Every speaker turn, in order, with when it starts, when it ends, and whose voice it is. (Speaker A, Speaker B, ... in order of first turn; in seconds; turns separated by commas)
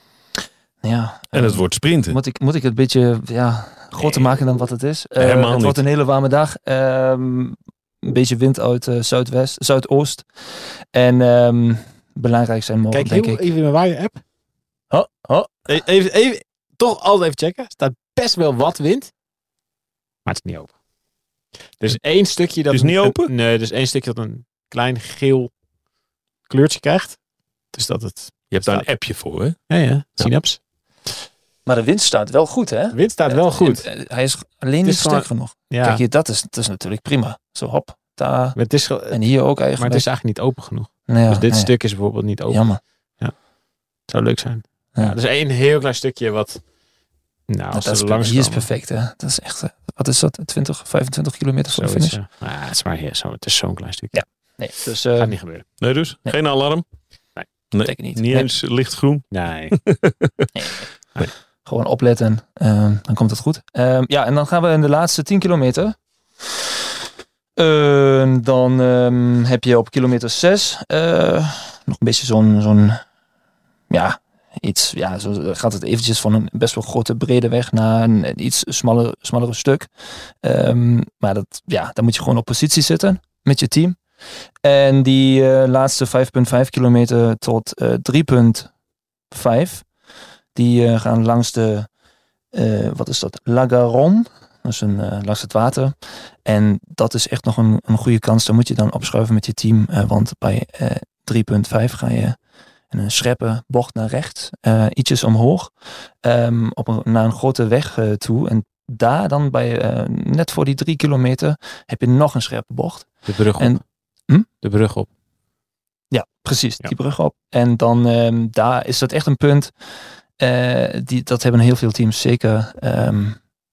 Speaker A: 0.8-13.5, Speaker B: 1.3-2.2, Speaker B: 5.2-5.8, Speaker C: 12.9-14.2, Speaker A: 14.9-15.8, Speaker C: 15.7-19.1, Speaker C: 20.2-20.8, Speaker C: 21.8-25.5, Speaker B: 22.7-23.3, Speaker C: 26.5-27.2, Speaker C: 27.7-29.0, Speaker B: 28.5-29.6, Speaker C: 29.7-30.6, Speaker A: 31.6-40.1, Speaker C: 32.9-33.9, Speaker C: 34.8-36.0, Speaker C: 38.5-43.4, Speaker A: 41.1-42.0, Speaker A: 42.5-42.8, Speaker C: 44.1-46.6, Speaker C: 47.5-48.7, Speaker A: 47.7-52.2, Speaker C: 51.7-54.2, Speaker A: 54.1-55.4, Speaker C: 55.1-55.6, Speaker B: 55.8-56.8, Speaker B: 57.7-60.5, Speaker A: 57.8-58.5, Speaker C: 59.3-59.8, Speaker A: 60.5-60.9, Speaker A: 61.6-66.0, Speaker A: 67.6-73.0, Speaker A: 73.9-84.0, Speaker A: 84.6-88.7, Speaker A: 89.3-89.9, Speaker A: 90.5-91.9, Speaker A: 92.5-102.4, Speaker A: 102.9-114.5, Speaker C: 113.2-113.8, Speaker C: 114.6-115.1, Speaker A: 116.1-123.4